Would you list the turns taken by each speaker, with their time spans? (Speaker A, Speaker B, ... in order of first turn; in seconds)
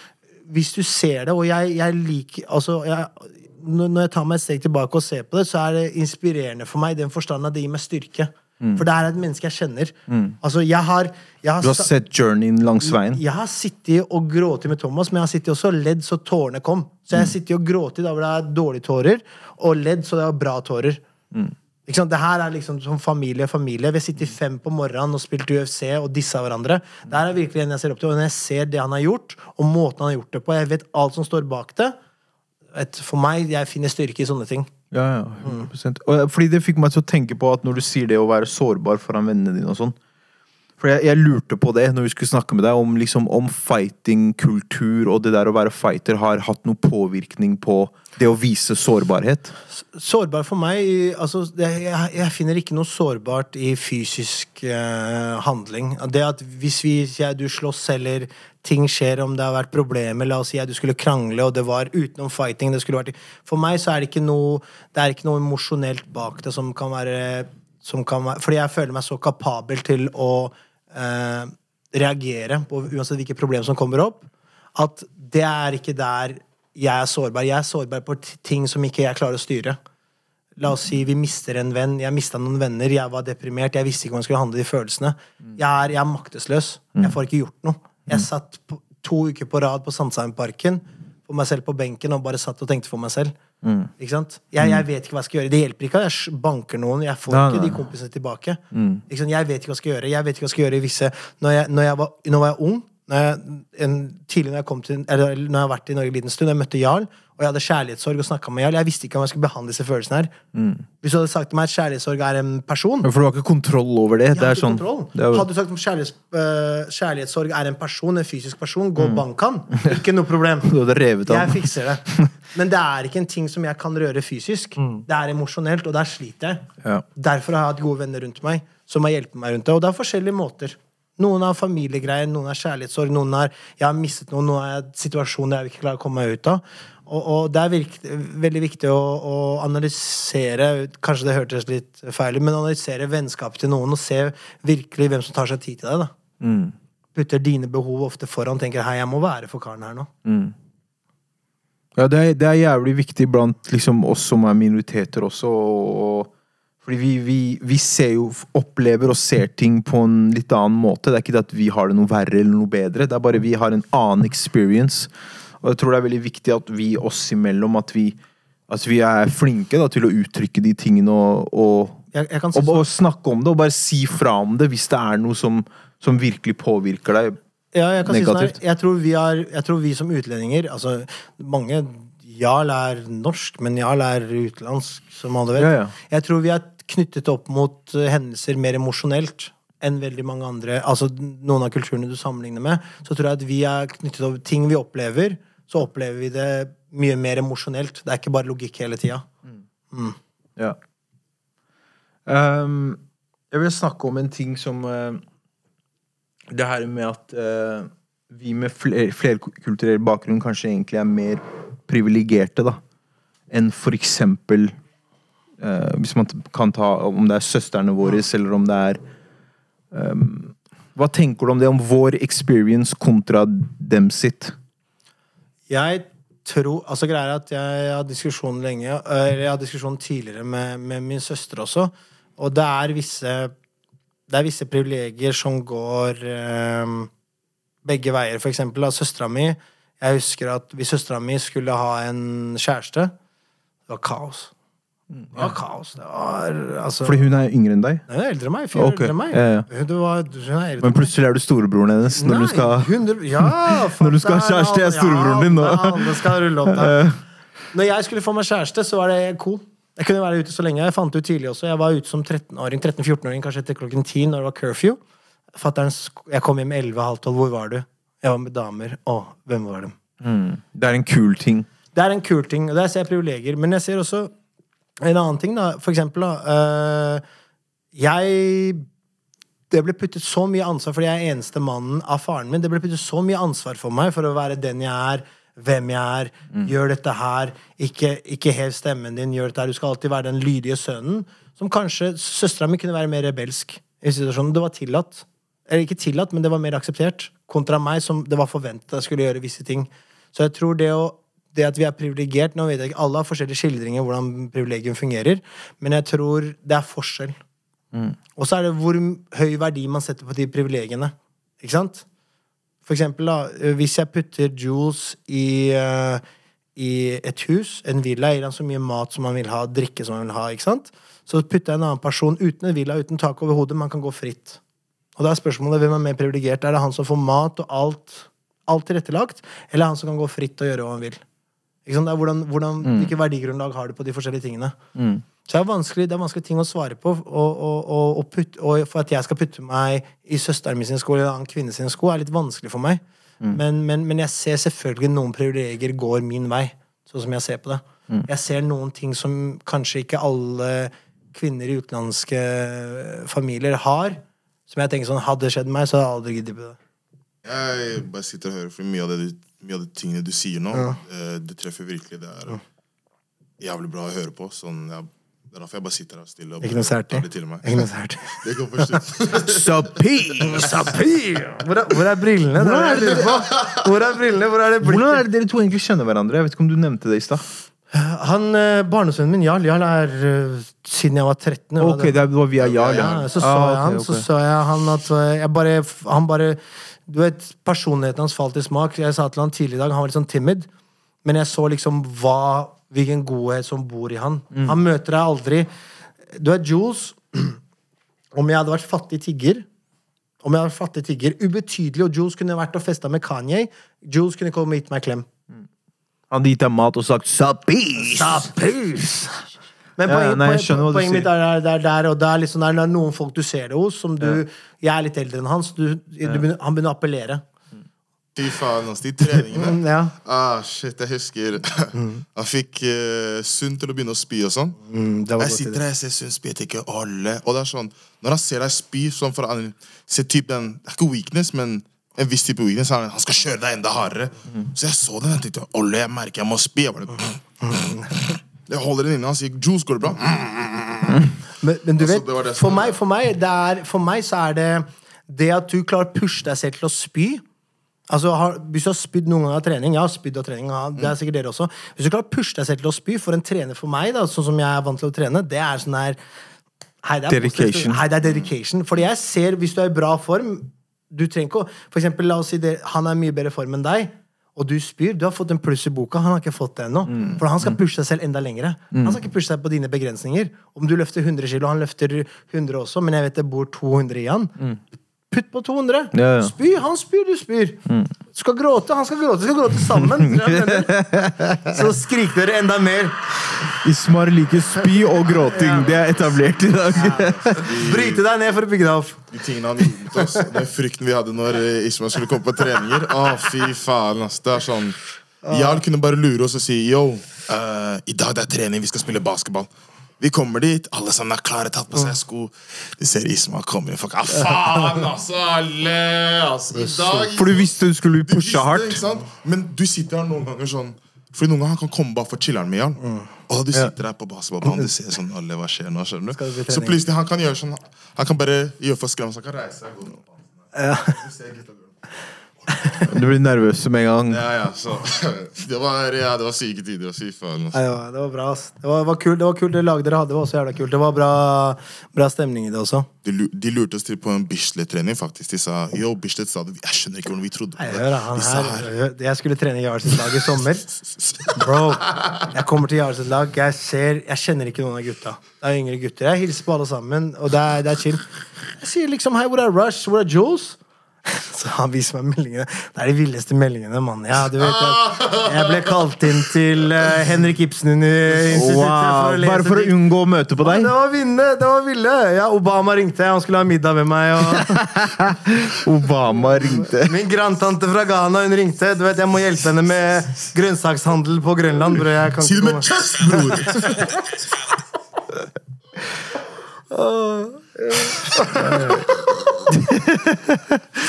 Speaker A: 0.5-11.9, 12.8-21.0, 21.9-32.0, 32.7-34.7, 49.7-79.8, 80.6-93.3, 94.0-110.3, 111.0-113.1, 114.3-146.1, 147.2-150.1, 172.1-172.9, 177.7-199.3, 199.9-200.2, 225.7-233.5, 234.3-237.1, 237.8-243.1, 243.9-244.5, 245.3-247.2, 248.1-251.1, 252.1-257.1, 257.7-265.0, 265.6-270.0, 271.9-274.3, 275.0-277.2, 277.9-278.9, 279.7-307.4, 308.4-312.1, 312.9-316.2, 316.8-324.6, 325.2-331.2, 331.9-334.8, 335.4-356.8, 366.6-369.0, 370.4-375.2, 377.9-382.2, 382.9-390.7, 391.2-395.7, 396.3-397.6, 398.3-399.7, 400.4-405.3, 408.1-409.5, 410.0-417.4, 419.5-420.1, 424.9-425.8, 437.6-438.1, 441.6-447.4, 448.1-456.2, 457.0-474.6, 475.3-481.0, 481.6-483.3, 485.4-485.9, 487.0-489.2, 495.4-495.8, 506.8-507.3, 513.0-513.9, 516.4-517.0, 520.7-521.2, 527.7-533.1, 537.8-540.9, 541.5-559.9, 560.6-564.8, 566.7-574.1, 576.9-578.9
Speaker B: 10.1-10.4, 11.6-13.2, 34.9-40.0, 40.8-49.5, 93.6-93.9, 97.3-97.9, 98.7-99.0, 110.5-110.8, 113.0-115.5, 119.0-119.2, 120.7-122.3, 124.8-125.0, 146.4-146.8, 150.2-150.5, 152.0-156.3, 156.8-168.2, 168.7-172.0, 172.5-177.4, 178.1-178.6, 185.6-185.9, 202.3-203.0, 203.5-205.2, 206.5-212.8, 213.5-214.8, 215.6-219.0, 219.9-224.6, 245.1-245.5, 247.1-248.0, 248.7-249.7, 250.8-257.2, 270.2-271.7, 332.8-333.1, 334.9-335.2, 369.4-371.0, 372.6-373.4, 374.8-377.4, 381.8-384.3, 406.3-408.5, 410.1-411.3, 457.3-458.0, 467.1-467.8, 468.9-469.2, 476.1-476.5, 479.9-481.8, 483.7-487.7, 507.4-509.1, 523.0-524.4, 558.5-560.9, 564.5-567.1, 578.6-579.0, 579.9-580.6
Speaker C: 357.4-362.6, 363.6-369.7, 382.6-383.2, 418.4-424.8, 425.4-441.3, 442.0-443.0, 485.6-486.4, 487.5-488.2, 489.3-520.3, 521.0-521.9, 524.3-527.8, 533.2-538.9, 554.8-555.7, 572.4-574.2, 578.5-579.6